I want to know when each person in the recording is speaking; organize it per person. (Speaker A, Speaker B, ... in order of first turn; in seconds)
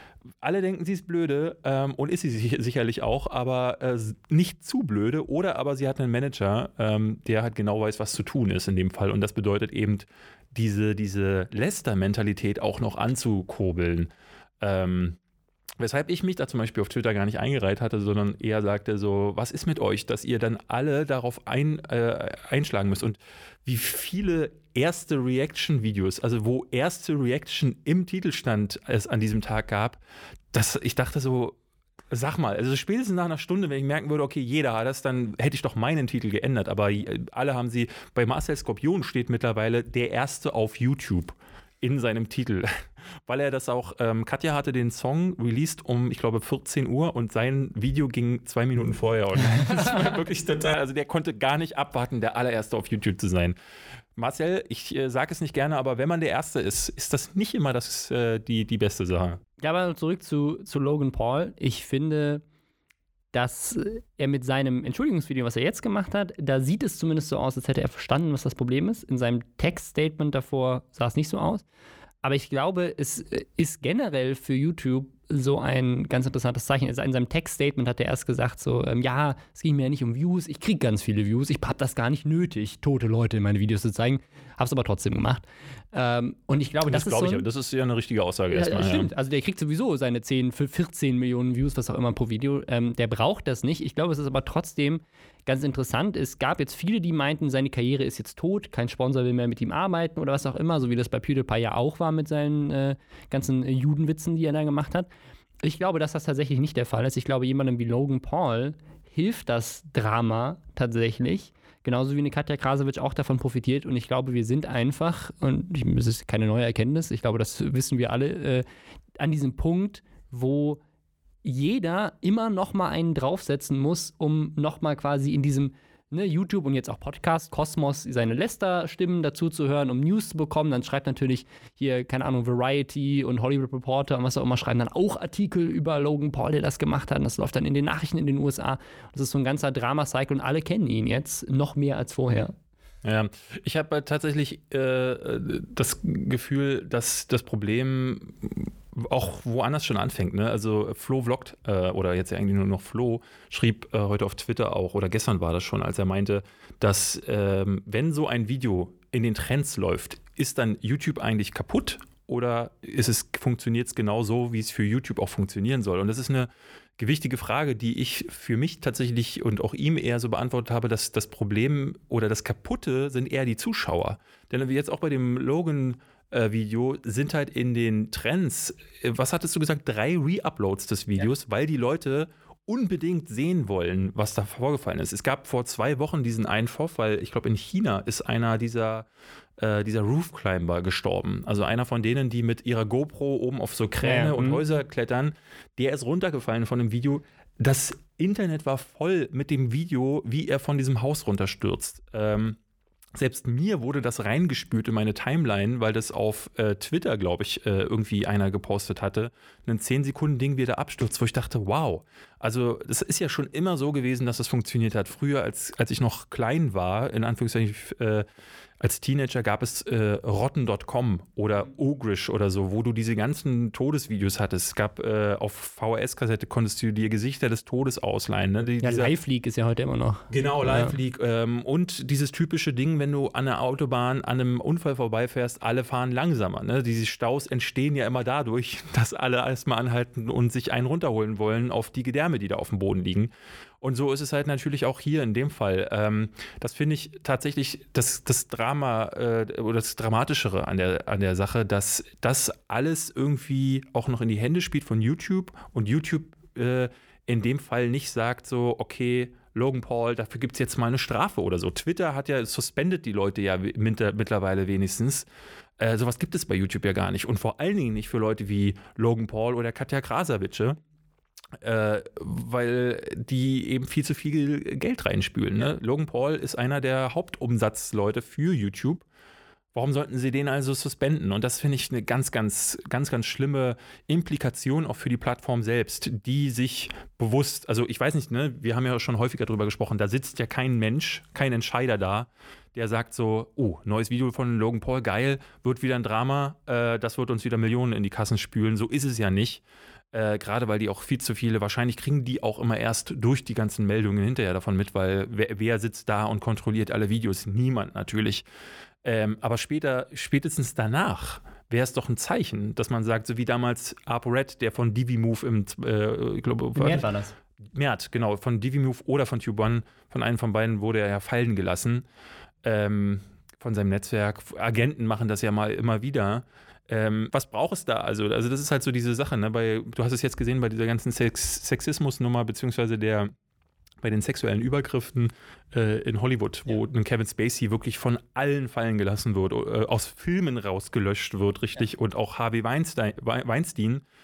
Speaker A: 0.4-14.1, 14.6-15.2, 15.8-30.0, 30.5-31.6, 32.1-53.6, 54.1-59.4, 86.8-89.1, 143.0-189.1, 189.6-202.6, 203.2-218.2, 218.8-229.1, 230.3-265.3, 265.8-270.8, 271.6-279.1, 279.7-308.4, 309.0-317.1, 317.7-322.0, 322.6-333.3, 334.0-344.0
Speaker B: 49.4-50.2, 59.6-62.4, 63.3-71.6, 72.2-87.5, 88.5-105.1, 105.6-118.7, 119.2-120.8, 121.4-142.5, 194.0-194.6, 228.8-230.9, 316.8-317.3